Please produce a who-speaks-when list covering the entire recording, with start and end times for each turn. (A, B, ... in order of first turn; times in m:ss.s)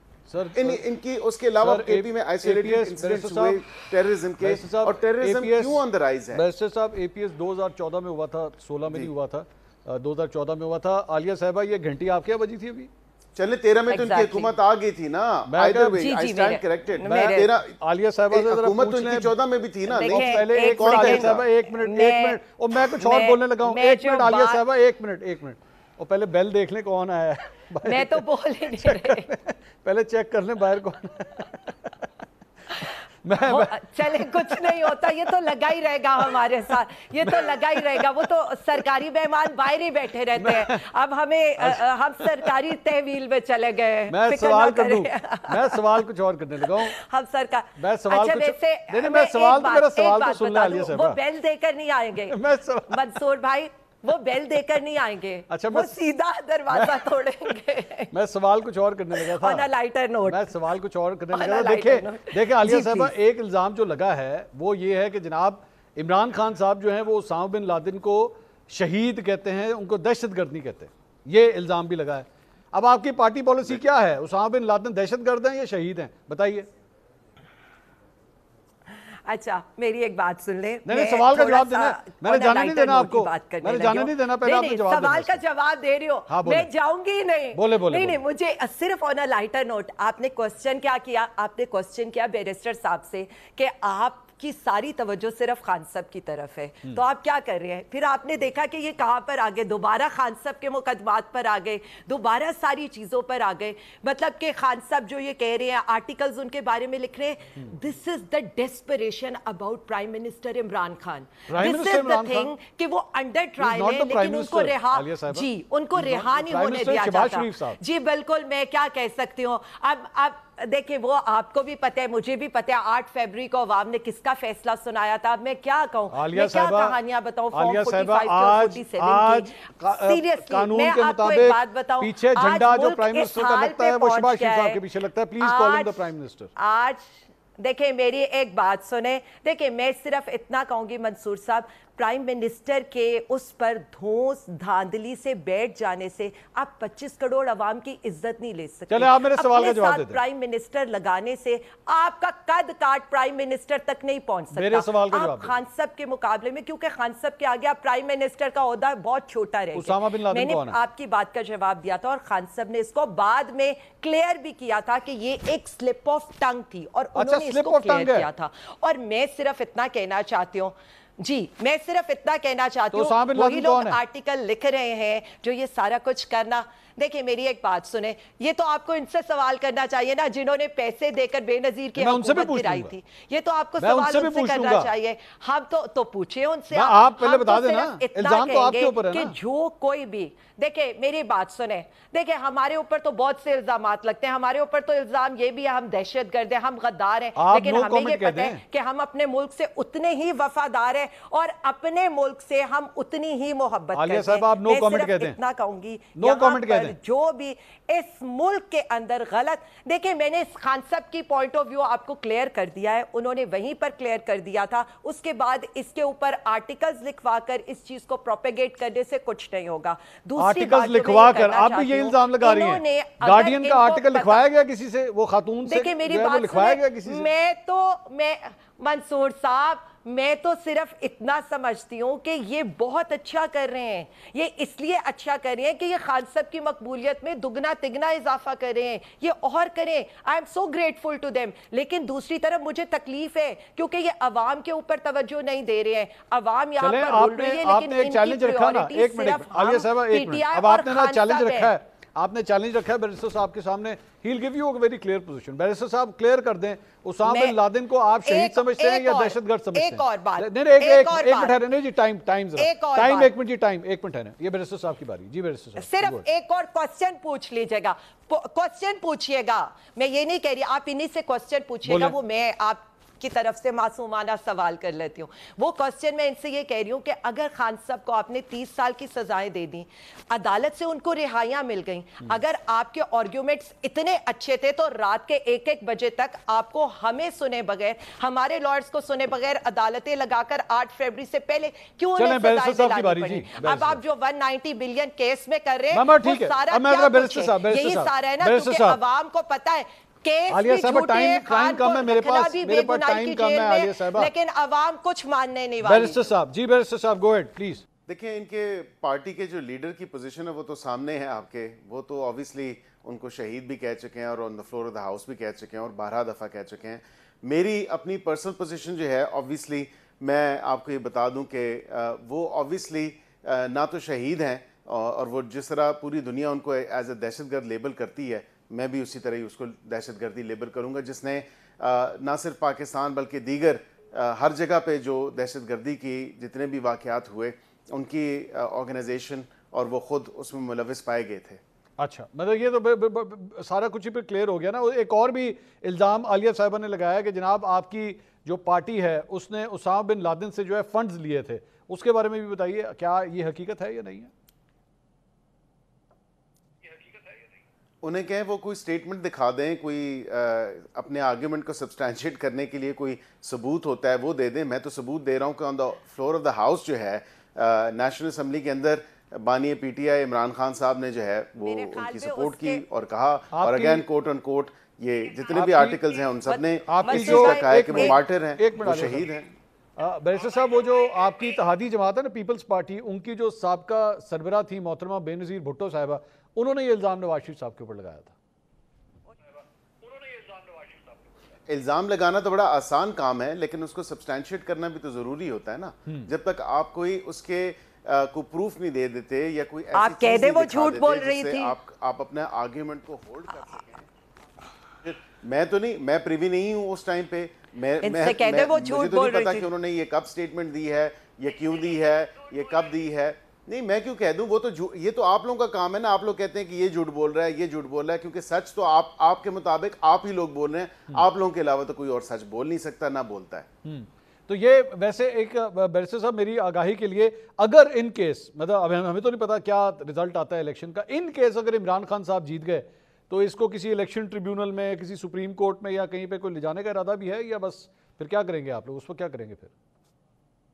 0:00.3-0:00.8 A
0:00.5-0:06.4 B
0:01.6-0:03.7 A
0:04.4-0:12.9 A
0:13.4-0:17.8 B
0:13.9-0:14.5 C
0:15.5-0:16.1 A
0:16.0-0:17.5 C
0:17.0-0:19.4 A
0:18.3-0:21.5 B
0:19.9-0:22.4 C
0:20.0-0:32.1 A
0:23.0-0:24.6 C
0:27.8-0:29.3 C
0:33.2-0:34.9 A
0:33.4-0:45.8 C
0:37.2-0:38.1 A
0:40.4-0:40.8 A
0:41.6-0:42.5 A
0:44.1-0:47.0 A
0:46.7-0:58.1 C
0:47.8-0:51.2 A
0:52.3-0:53.2 A
0:55.5-0:56.0 A
0:56.7-0:57.1 A
0:58.1-0:59.7 A
0:59.1-1:00.5 C
1:00.2-1:16.7 A
1:01.3-1:03.1 C
1:18.9-2:14.8 C
1:20.9-1:25.4 A
1:26.3-1:26.7 A
1:27.5-1:28.2 A
1:51.5-1:52.5 A
1:53.6-1:57.8 A
2:06.1-2:07.0 A
2:07.5-2:16.5 A
2:15.4-2:16.0 C
2:16.6-3:44.4 C
2:28.9-2:30.2 A
2:34.5-2:35.6 A
2:39.7-2:40.8 A
2:47.2-2:48.3 A
2:52.9-2:54.0 A
3:02.0-3:02.9 A
3:03.8-3:04.9 A
3:06.7-3:09.4 A
3:17.4-3:18.6 A
3:24.0-3:25.4 A
3:26.2-3:27.0 A
3:40.4-3:47.3 A
3:45.7-4:11.7 C
4:06.8-4:26.3 A
4:17.2-4:17.6 C
4:18.2-4:21.6 C
4:22.6-4:23.3 C
4:25.8-5:06.2 C
4:31.9-4:32.2 A
4:52.2-4:54.0 A
4:55.9-4:59.0 A
5:00.5-5:04.3 A
5:05.8-5:07.8 A
5:08.1-5:41.6 B
5:42.0-5:54.3 A
5:58.0-6:19.5 B
6:11.6-6:12.8 C
6:13.5-6:14.0 A
6:15.5-6:16.0 A
6:16.5-6:18.2 C
6:16.9-6:19.3 A
6:20.0-6:28.3 A
6:31.7-6:44.1 B
6:39.9-6:41.7 C
6:45.0-7:03.7 B
6:48.0-6:49.7 C
7:03.8-7:19.7 A